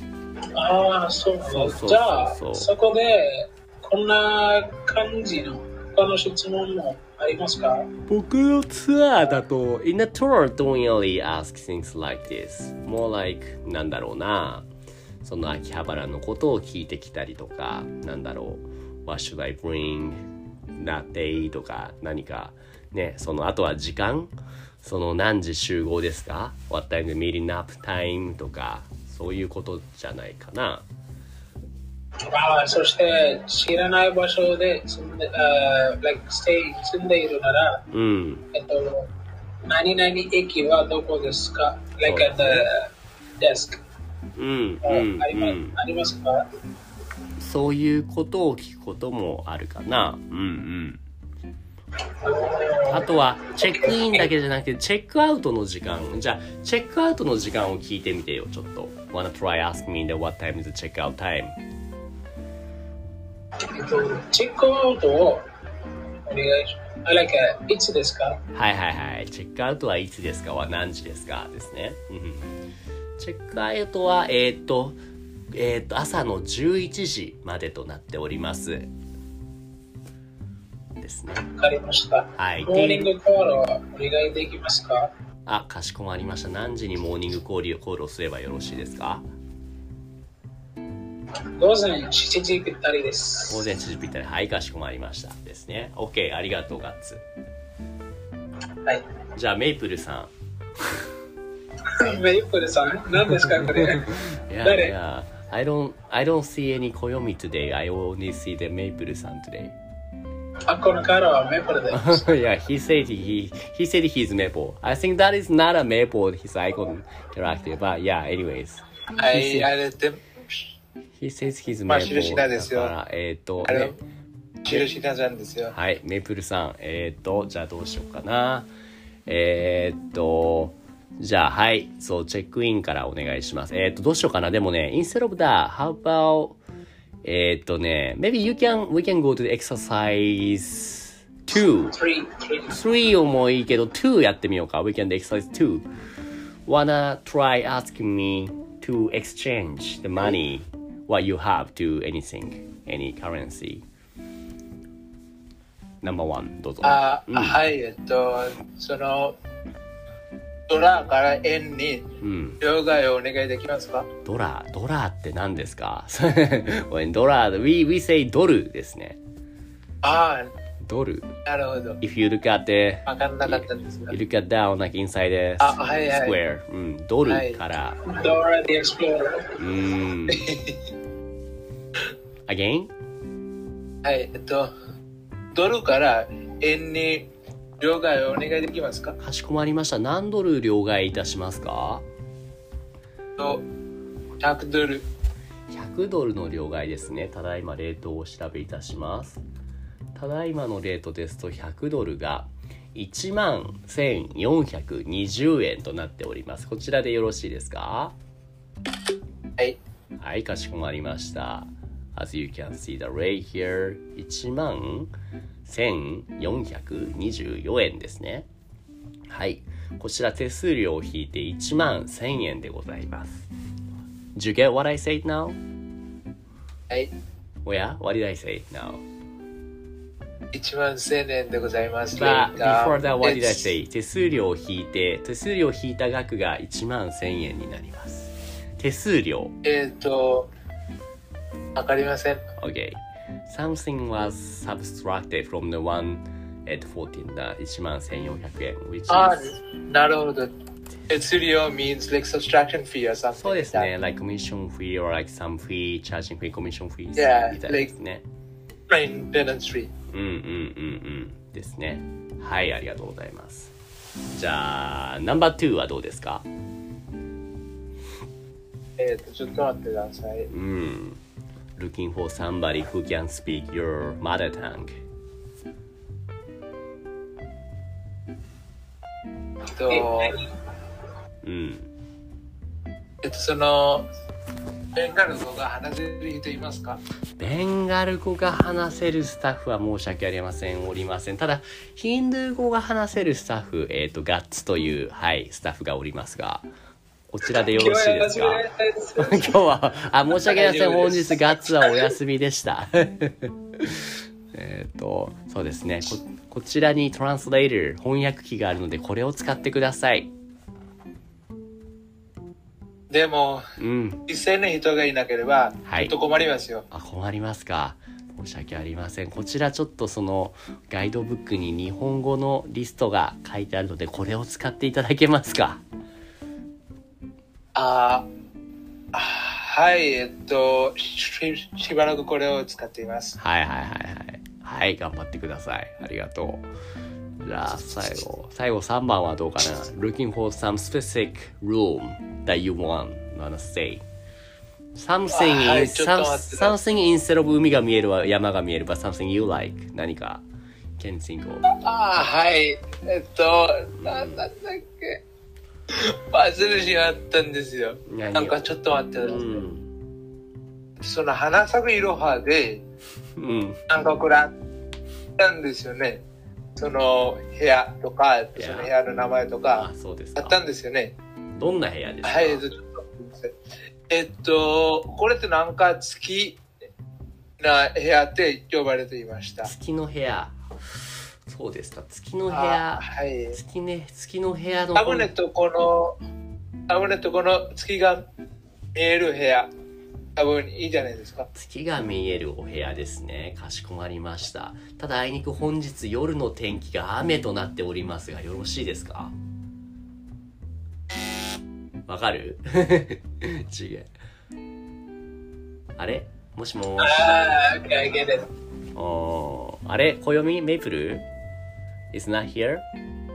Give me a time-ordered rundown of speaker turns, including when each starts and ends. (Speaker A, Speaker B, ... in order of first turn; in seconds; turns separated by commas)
Speaker A: 0.6-7.9, Speaker B: 1.4-2.7, Speaker B: 8.1-14.7, Speaker B: 15.2-20.2, Speaker B: 20.8-30.9, Speaker A: 32.3-37.9, Speaker B: 37.9-38.5, Speaker A: 38.5-39.1, Speaker A: 39.7-43.8, Speaker B: 42.0-42.7, Speaker B: 44.4-45.8, Speaker A: 44.8-46.5, Speaker B: 47.4-51.0, Speaker A: 52.2-54.3, Speaker B: 52.9-61.6, Speaker A: 63.7-65.5, Speaker A: 66.3-68.4, Speaker B: 68.5-72.6, Speaker B: 73.2-75.0, Speaker B: 75.5-78.9, Speaker B: 81.0-81.5, Speaker A: 81.5-85.1, Speaker B: 82.4-83.1, Speaker B: 85.5-89.3, Speaker A: 91.6-93.7, Speaker B: 93.5-97.2, Speaker B: 99.3-100.3, Speaker A: 101.9-105.0, Speaker B: 103.4-109.8, Speaker A: 110.7-112.3, Speaker B: 111.9-119.7, Speaker C: 119.2-120.6, Speaker B: 121.2-124.0, Speaker C: 121.9-122.9, Speaker C: 123.6-124.0, Speaker C: 124.7-125.8, Speaker B: 125.7-128.7, Speaker B: 129.3-136.6, Speaker B: 137.2-142.0, Speaker A: 141.9-142.8, Speaker B: 142.7-145.9, Speaker B: 146.7-153.8, Speaker B: 156.0-157.6, Speaker C: 156.8-159.4, Speaker C: 160.7-164.1, Speaker B: 162.2-162.6, Speaker B: 164.2-169.2, Speaker C: 170.0-170.5, Speaker B: 170.8-171.3, Speaker C: 171.5-172.0, Speaker B: 172.0-178.0, Speaker C: 173.1-174.2, Speaker C: 175.6-176.4, Speaker C: 177.2-177.6, Speaker A: 178.1-179.6, Speaker B: 179.6-180.5, Speaker C: 180.3-180.8, Speaker B: 182.5-182.9, Speaker C: 184.0-184.7, Speaker C: 185.5-189.2, Speaker B: 189.2-192.1, Speaker C: 193.4-193.7, Speaker C: 194.4-195.1, Speaker B: 195.7-199.4, Speaker B: 200.2-208.2, Speaker B: 210.2-215.1, Speaker B: 215.7-218.5, Speaker B: 219.3-223.5, Speaker B: 224.3-225.6, Speaker B: 227.7-229.0, Speaker C: 230.5-233.7, Speaker B: 232.1-239.6, Speaker C: 239.6-240.5, Speaker C: 241.8-242.4, Speaker B: 242.6-249.6, Speaker C: 249.1-250.5, Speaker C: 251.1-253.9, Speaker B: 253.3-258.2, Speaker C: 257.2-257.9, Speaker C: 258.9-259.9, Speaker B: 260.1-263.7, Speaker B: 264.3-266.5, Speaker C: 269.0-270.5, Speaker B: 270.5-271.2, Speaker B: 271.8-275.0, Speaker C: 279.8-280.4, Speaker A: 279.9-280.5, Speaker B: 281.4-281.9, Speaker C: 283.2-284.1, Speaker C: 284.9-287.0, Speaker B: 287.4-296.7, Speaker B: 297.3-298.6, Speaker A: 297.5-299.6, Speaker B: 299.2-310.3, Speaker C: 300.5-301.4, Speaker C: 313.1-313.7, Speaker B: 313.8-314.2, Speaker C: 314.3-316.9, Speaker B: 315.9-316.1, Speaker B: 316.9-325.8, Speaker C: 327.8-328.3, Speaker C: 329.1-333.4, Speaker B: 333.4-336.7, Speaker B: 337.4-344.0, Speaker B: 344.9-350.4, Speaker C: 345.3-346.8, Speaker B: 351.0-351.7, Speaker C: 351.7-355.2, Speaker B: 354.0-354.5, Speaker C: 355.9-359.6, Speaker B: 358.1-358.7, Speaker B: 359.2-359.9, Speaker C: 361.0-362.8, Speaker B: 363.4-363.8, Speaker C: 363.9-364.5, Speaker C: 365.4-366.2, Speaker C: 366.8-371.1, Speaker B: 368.6-368.9, Speaker B: 369.7-370.6, Speaker B: 371.6-372.6, Speaker C: 372.2-373.6, Speaker C: 374.1-376.6, Speaker C: 377.6-379.7, Speaker B: 379.6-380.6, Speaker B: 381.5-385.3, Speaker C: 382.5-383.6, Speaker C: 384.9-386.2, Speaker C: 386.9-388.3, Speaker C: 388.9-389.7, Speaker C: 390.4-391.5, Speaker B: 391.5-399.3, Speaker B: 402.1-404.1, Speaker B: 406.0-407.3, Speaker A: 407.0-408.5, Speaker B: 408.9-411.3, Speaker B: 412.1-412.9